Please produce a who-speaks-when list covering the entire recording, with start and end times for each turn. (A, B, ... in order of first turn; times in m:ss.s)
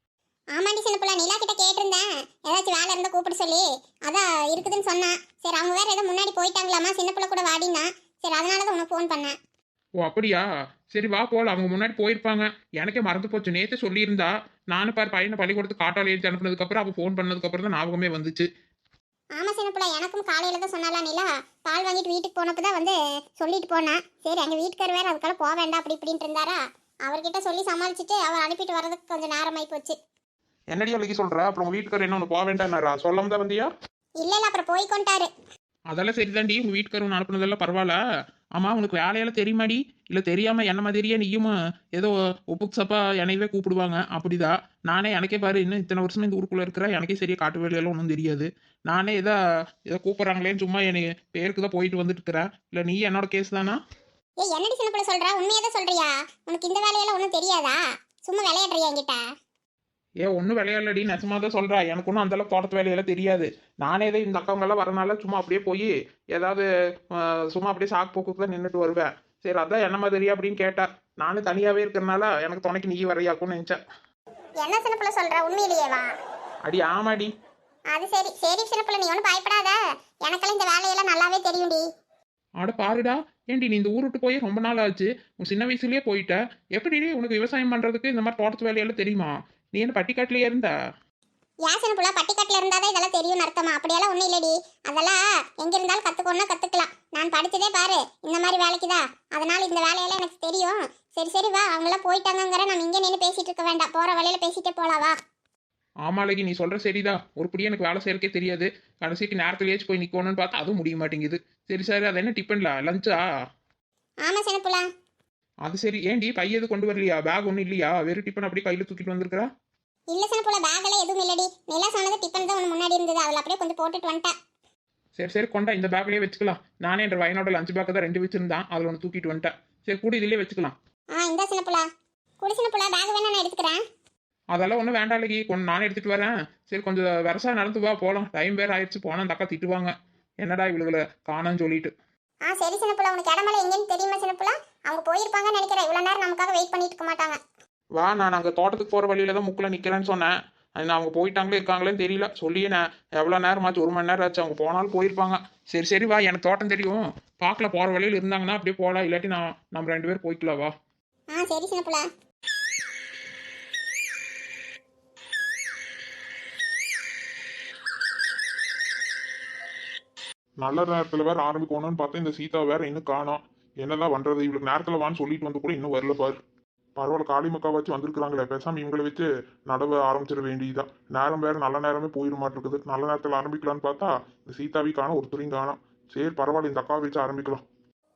0:00.5-0:09.3 A
0:10.0-0:18.5 B
0:19.3-0:30.0 A
0:30.7-0:33.7 B
0:34.2-0:35.3 A
0:35.9-0:38.0 B
0:38.6-0:49.4 B
0:49.9-0:53.8 B
0:54.4-0:59.2 A
1:00.2-1:13.8 B
1:14.6-1:16.1 A
1:16.6-1:17.3 B
1:17.9-1:21.8 A
1:22.6-1:30.7 B
1:31.6-1:45.1 A
1:46.0-1:53.2 B
1:54.2-1:54.9 A
1:55.6-1:59.5 B
2:00.1-2:04.3 A
2:05.2-2:10.7 B
2:11.1-2:11.8 A
2:12.4-2:13.8 A
2:14.5-2:21.9 B
2:22.4-2:27.4 A
2:28.0-2:40.7 B
2:41.3-2:42.1 A
2:50.6-2:56.4 C
2:57.0-3:07.6 C